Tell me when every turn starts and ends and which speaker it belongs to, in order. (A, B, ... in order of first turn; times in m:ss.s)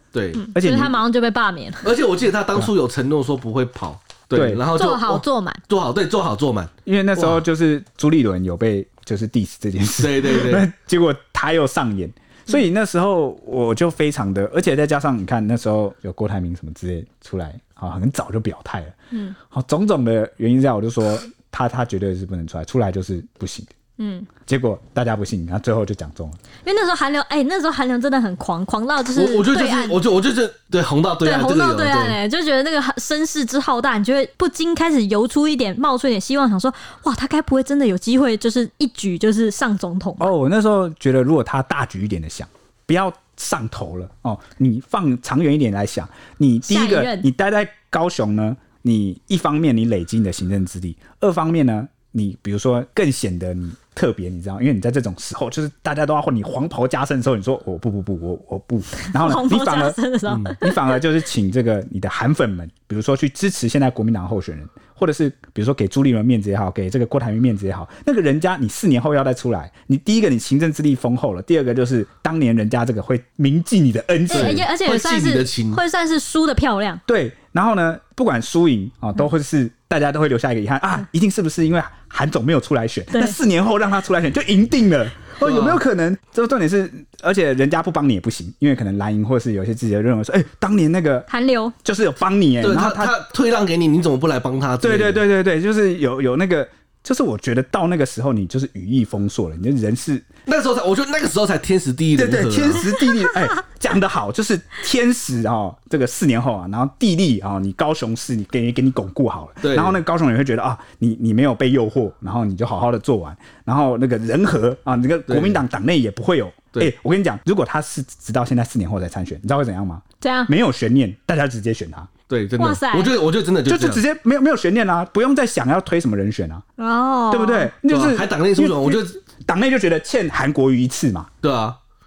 0:00.1-0:00.4 A
0:00.3-0:01.9 B
0:00.5-0:01.0 C
0:01.8-0:07.4 A
0:04.3-0:04.6 C
0:04.7-0:05.6 B
0:06.8-0:18.9 C
0:10.0-0:10.7 A
0:19.5-0:23.7 C
0:24.0-0:24.3 B
0:24.4-0:26.4 C
0:26.6-0:30.0 B
0:29.2-0:32.2 A
0:31.2-0:40.3 B
0:40.2-1:14.6 C
0:46.6-0:47.3 B
0:59.0-1:01.0 B
1:00.3-1:00.5 A
1:14.3-1:17.0 B
1:14.3-1:15.8 A
1:17.1-1:31.3 C
1:25.4-1:25.8 A
1:31.3-1:31.7 B
1:31.8-1:33.1 C
1:32.6-1:35.2 A
1:34.8-1:40.2 C
1:40.5-1:42.9 A
1:42.2-2:02.1 C
1:49.6-1:50.0 A
1:55.3-1:55.6 A
2:00.2-2:00.5 B
2:02.3-2:04.0 A
2:02.6-2:03.1 B
2:03.6-2:06.6 C
2:06.8-2:07.7 B
2:07.3-2:11.3 C
2:07.9-2:09.2 A
2:11.4-2:11.8 A